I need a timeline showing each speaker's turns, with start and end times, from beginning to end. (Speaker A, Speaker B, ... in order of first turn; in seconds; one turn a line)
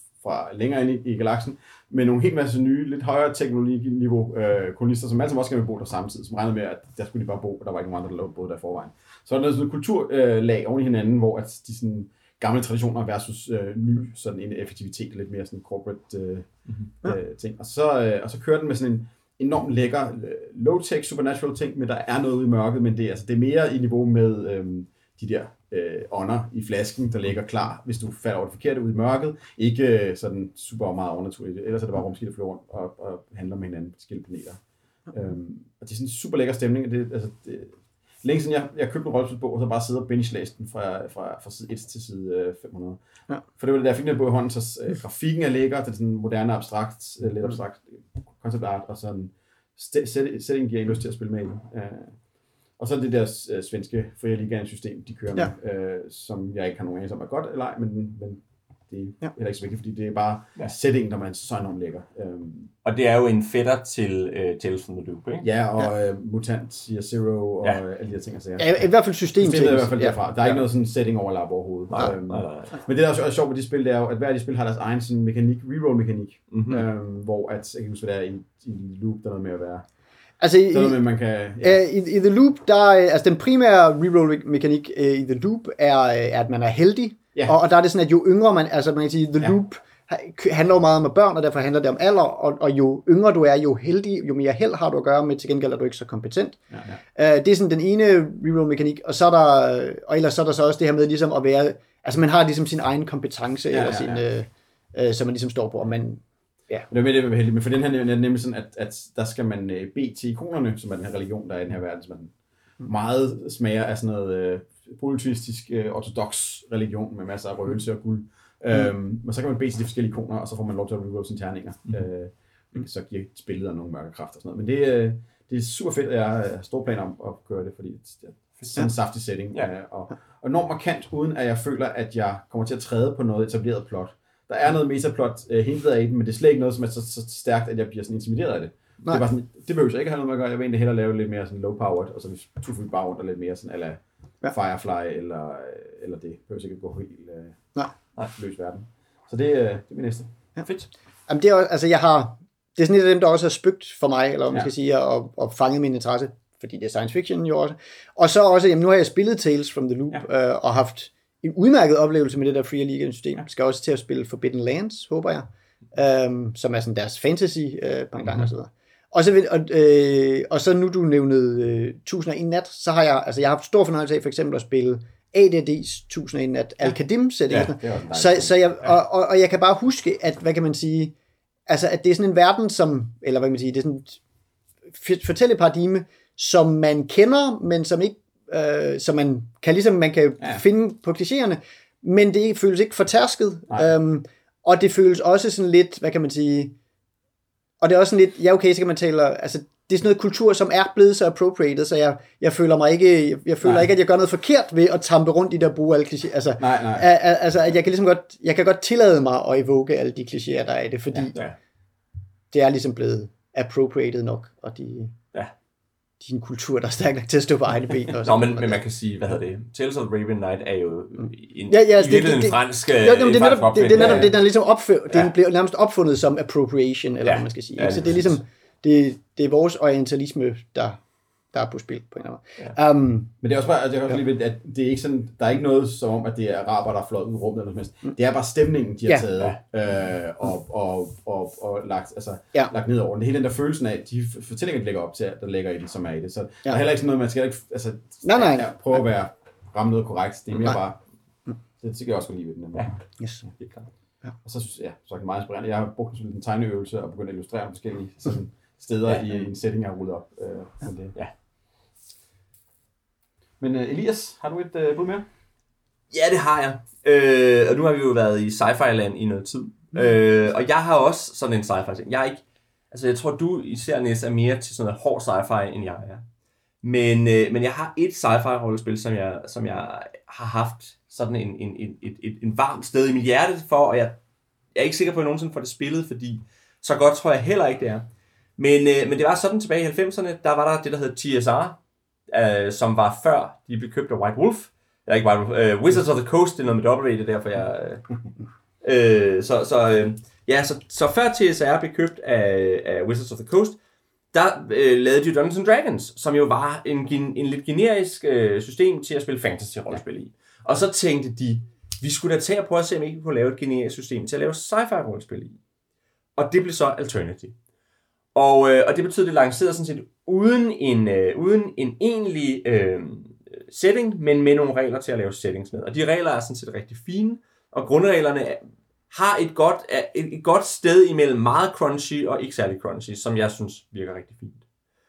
Speaker A: 0.2-16.5
Speaker A: 17.0-43.0
Speaker A: 43.5-52.2
Speaker A: 52.8-62.7
Speaker B: 62.8-65.5
Speaker A: 65.4-79.8
Speaker C: 68.6-70.2
Speaker B: 71.9-72.8
Speaker B: 76.5-76.8
Speaker C: 80.4-81.0
Speaker A: 80.7-81.8
Speaker C: 81.6-96.6
Speaker A: 96.7-97.0
Speaker C: 97.1-106.9
Speaker A: 103.7-104.2
Speaker A: 106.9-150.3
Speaker C: 151.3-181.1
Speaker A: 177.5-178.5
Speaker C: 181.7-184.2
Speaker C: 184.9-196.7
Speaker C: 197.8-211.4
Speaker A: 206.6-207.1
Speaker C: 212.5-215.2
Speaker C: 216.2-218.8
Speaker B: 218.1-224.3
Speaker C: 221.7-231.0
Speaker A: 223.9-224.3
Speaker B: 227.2-228.4
Speaker C: 231.5-233.3
Speaker A: 233.4-251.0
Speaker C: 248.2-249.0
Speaker A: 251.8-253.0
Speaker B: 253.6-253.9
Speaker A: 254.4-261.2
Speaker A: 263.6-265.2
Speaker B: 266.1-276.2
Speaker B: 276.8-284.2
Speaker B: 284.7-291.8
Speaker B: 292.3-298.1
Speaker B: 298.8-303.8
Speaker B: 304.3-315.6
Speaker B: 316.4-317.6
Speaker B: 318.3-334.6